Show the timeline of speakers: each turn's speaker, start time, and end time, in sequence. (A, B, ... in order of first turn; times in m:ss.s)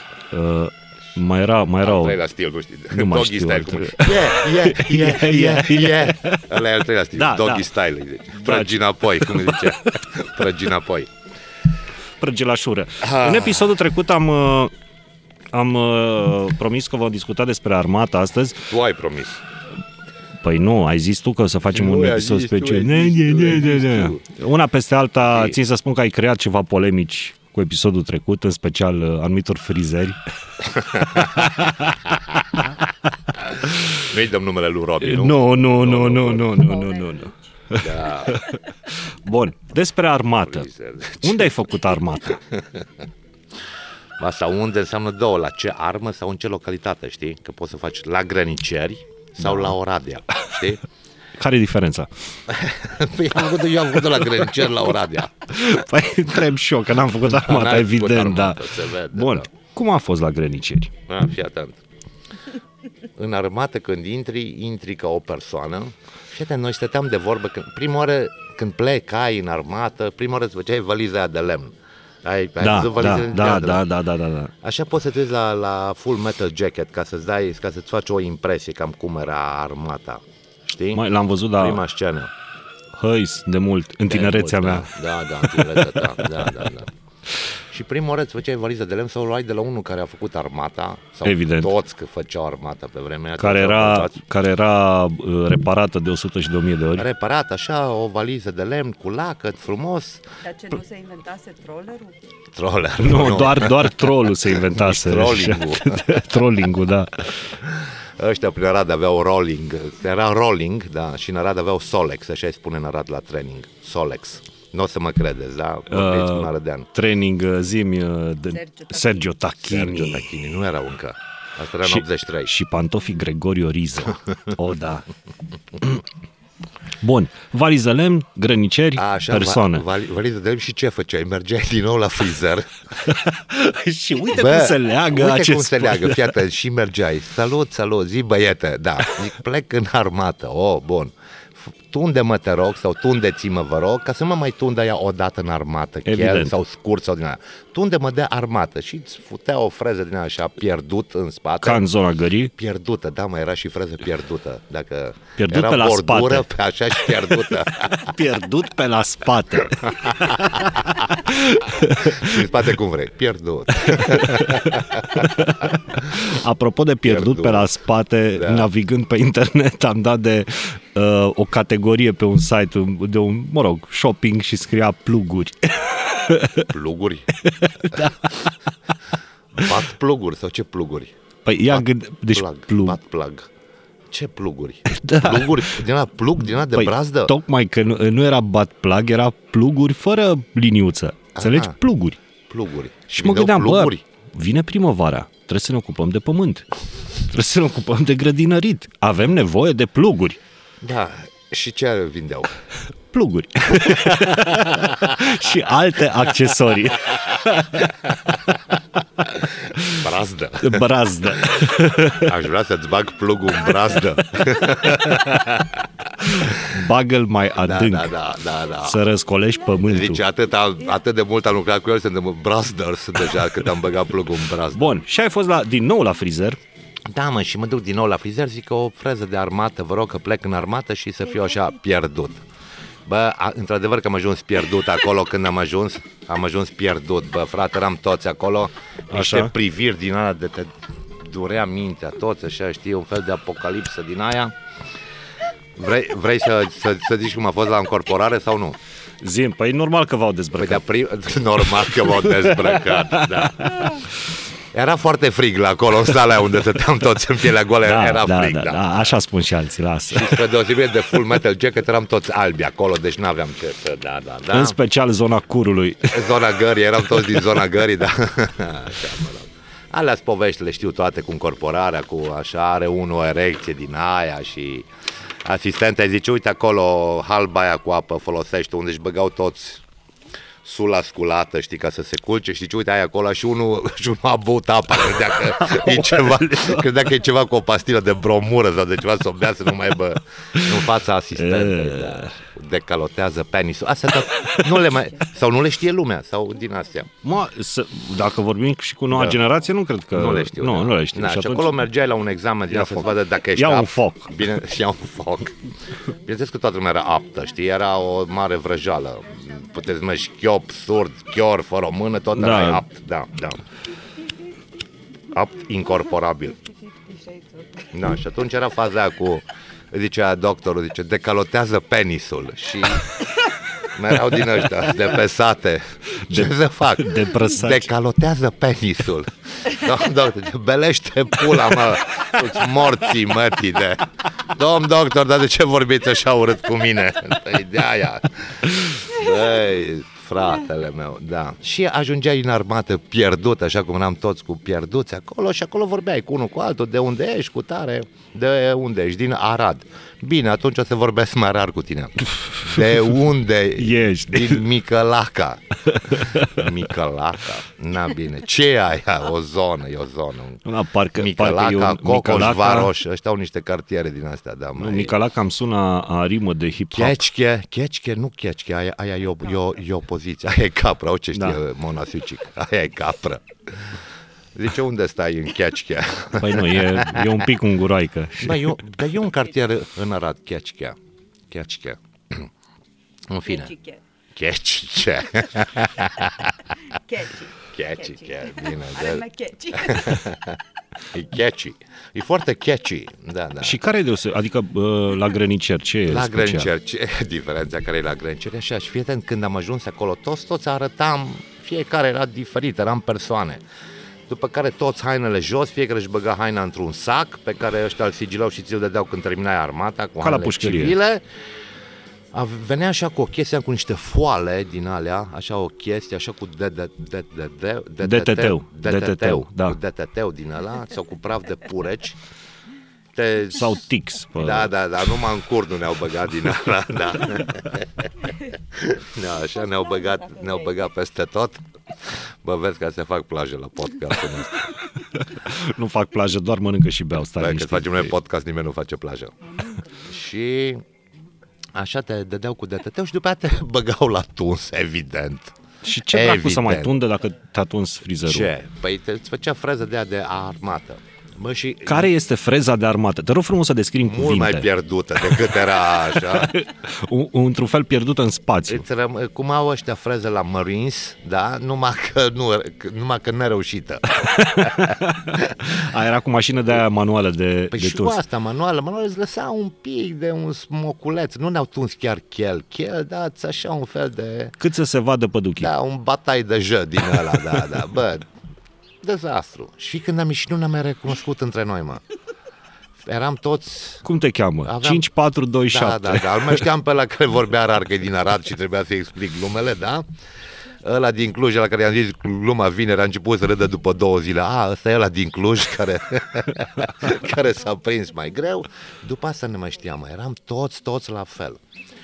0:00.3-0:02.2 A
0:01.8-0:11.1 B
0:02.9-0:06.4 A
0:07.2-0:07.7 A
0:08.3-0:09.9 A
0:12.2-0:14.7 A
0:13.0-0:13.7 B
0:15.5-0:18.6 A
0:18.7-0:19.4 B
0:20.4-0:30.2 A
0:21.7-0:24.2 B
0:25.2-0:25.6 B
0:30.7-0:31.8 B
0:31.2-0:31.9 A
0:33.4-0:36.6 B
0:35.0-0:40.7 A
0:36.5-0:37.3 C
0:37.8-0:38.4 B
0:40.5-0:41.6 B
0:41.2-0:42.4 A
0:42.3-0:42.9 B
0:44.2-0:50.8 B
0:49.4-0:49.8 A
0:51.4-0:52.1 A
0:52.5-0:55.5 B
0:54.2-0:54.5 A
0:55.5-1:00.9 A
0:57.4-0:59.5 B
1:01.1-1:01.8 B
1:03.2-1:13.8 B
1:12.6-1:14.5 A
1:14.6-1:21.0 B
1:20.9-1:21.8 A
1:21.6-1:22.3 B
1:22.9-1:24.9 A
1:24.1-1:26.9 B
1:25.4-1:26.5 A
1:27.7-1:34.2 B
1:31.2-1:31.7 A
1:33.4-1:37.0 A
1:37.0-1:40.2 B
1:40.4-1:42.2 C
1:42.6-1:46.3 B
1:43.0-1:47.4 A
1:47.6-1:56.9 B
1:55.9-2:00.3 A
1:58.5-1:59.4 C
1:59.6-2:02.5 B
2:01.8-2:05.1 A
2:07.0-2:09.8 A
2:09.0-2:12.8 B
2:13.0-2:16.3 A
2:14.3-2:31.8 B
2:26.0-2:26.5 A
2:31.6-2:32.5 A
2:32.6-2:38.1 B
2:35.4-2:36.5 A
2:37.8-2:42.5 A
2:40.0-2:40.9 B
2:41.9-2:45.7 B
2:43.9-2:56.7 A
2:47.0-2:47.7 B
2:48.4-2:48.7 B
2:56.6-2:57.3 B
2:57.4-2:58.5 A
2:59.5-3:01.1 B
3:01.4-3:03.0 A
3:01.7-3:03.5 B
3:04.1-3:07.3 B
3:04.9-3:05.8 A
3:06.6-3:12.2 A
3:11.3-3:11.8 B
3:12.5-3:14.0 B
3:13.2-3:20.4 A
3:20.8-3:22.6 B
3:23.1-3:28.1 A
3:24.0-3:25.1 B
3:29.3-3:30.9 B
3:30.6-3:32.3 A
3:32.1-3:36.7 B
3:36.2-3:38.1 A
3:37.6-3:39.0 B
3:38.8-3:40.2 A
3:39.8-3:44.8 B
3:44.7-3:46.6 A
3:47.1-3:52.4 B
3:53.1-4:04.5 B
3:59.1-3:59.5 A
4:05.8-4:08.8 B
4:09.2-4:10.8 A
4:10.6-4:14.0 B
4:11.7-4:14.0 A
4:14.7-4:19.1 B
4:17.8-4:20.4 A
4:20.1-4:24.8 B
4:24.5-4:26.2 A
4:26.1-4:34.9 B
4:35.4-4:39.8 B
4:40.6-4:57.1 B
4:45.6-4:46.8 A
4:50.6-4:52.3 A
4:57.2-5:01.8 A
4:59.1-4:59.4 B
5:00.1-5:13.6 B
5:02.7-5:04.5 A
5:12.3-5:12.8 A
5:15.3-5:16.6 B
5:16.6-5:17.9 C
5:17.9-5:23.2 B
5:23.8-6:00.6 B
5:26.3-5:27.9 A
5:52.7-5:53.1 A
5:53.8-5:54.6 A
5:55.9-5:56.6 A
6:00.6-6:02.9 A
6:01.2-6:05.2 B
6:04.8-6:07.2 A
6:06.9-6:13.9 B
6:11.3-6:11.6 A
6:14.6-6:17.4 B
6:16.4-6:18.8 A
6:18.4-6:21.0 B
6:21.5-6:22.5 B
6:23.3-6:23.7 B
6:23.4-6:24.0 C
6:24.3-6:26.5 B
6:26.9-6:30.3 C
6:27.7-6:29.2 B
6:29.8-6:30.6 B
6:31.1-6:33.8 B
6:33.6-6:36.7 A
6:36.1-6:43.6 B
6:44.3-6:51.2 B
6:50.2-6:51.0 A
6:52.3-7:02.2 B
6:58.0-6:59.8 A
7:03.2-7:03.8 B
7:03.5-7:04.7 A
7:04.4-7:11.6 B
7:09.6-7:10.8 C
7:12.2-7:14.7 B
7:15.1-7:18.1 A
7:17.4-7:19.3 B
7:19.4-7:20.2 C
7:20.1-7:20.8 B
7:21.8-7:25.6 B
7:25.8-7:28.5 A
7:26.1-7:27.0 B
7:28.3-7:32.1 B
7:31.8-7:34.7 A
7:34.0-7:36.6 B
7:35.2-7:38.8 A
7:38.7-7:45.6 B
7:44.3-7:48.2 A
7:47.7-7:54.6 B
7:54.6-7:55.7 A
7:55.6-7:58.3 B
7:59.0-8:02.0 B
8:03.0-8:04.0 B
8:04.0-8:06.6 A
8:04.6-8:05.1 B
8:05.7-8:10.1 B
8:10.8-8:21.6 B